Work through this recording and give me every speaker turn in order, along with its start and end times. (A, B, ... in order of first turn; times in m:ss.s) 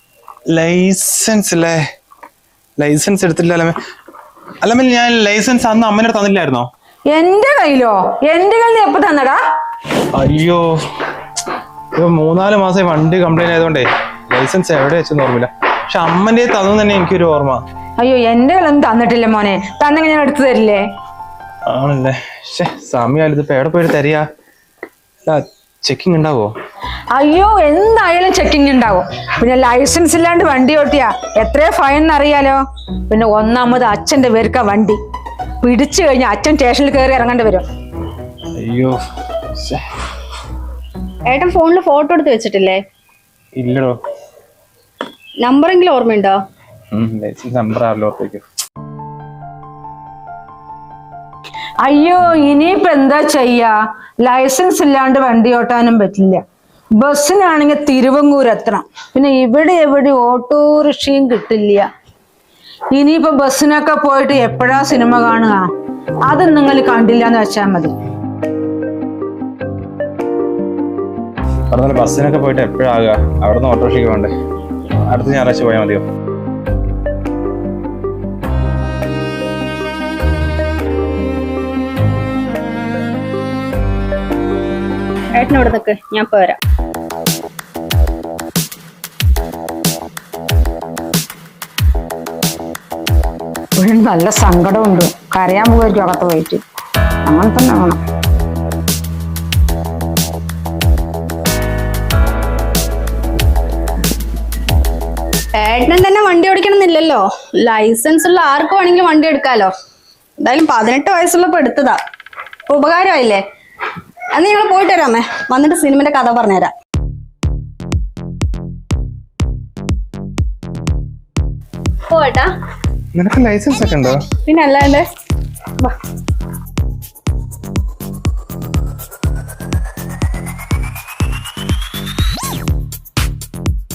0:00.5-0:01.8 A
0:02.8-0:03.8 A
0:04.6-0:06.7 A
0:07.1-0:09.4 B
0:10.1-0:10.6 A
0:12.0-0:17.6 A
0:18.0-0:20.8 B
0:21.7-0:24.2 A
0:25.3-0:26.5 A
0:27.2-0:35.0 B
0:35.6-0:37.6 B
0:38.6-0:39.0 A
0:41.3-0:42.8 C
0:43.6-0:44.0 A
0:45.4-0:46.4 C
0:46.9-0:48.4 A
0:51.8-0:56.4 B
0:57.0-1:01.9 B
1:02.9-1:05.7 B
1:06.3-1:07.9 B
1:11.7-1:14.3 A
1:15.1-1:16.0 A
1:25.4-1:26.6 C
1:33.8-1:36.6 B
1:37.2-1:38.0 B
1:45.6-1:49.7 C
1:50.4-1:52.0 C
1:52.7-1:53.4 C
1:54.3-1:56.7 C
2:02.1-2:02.5 C
2:03.2-2:04.3 A
2:04.5-2:05.1 C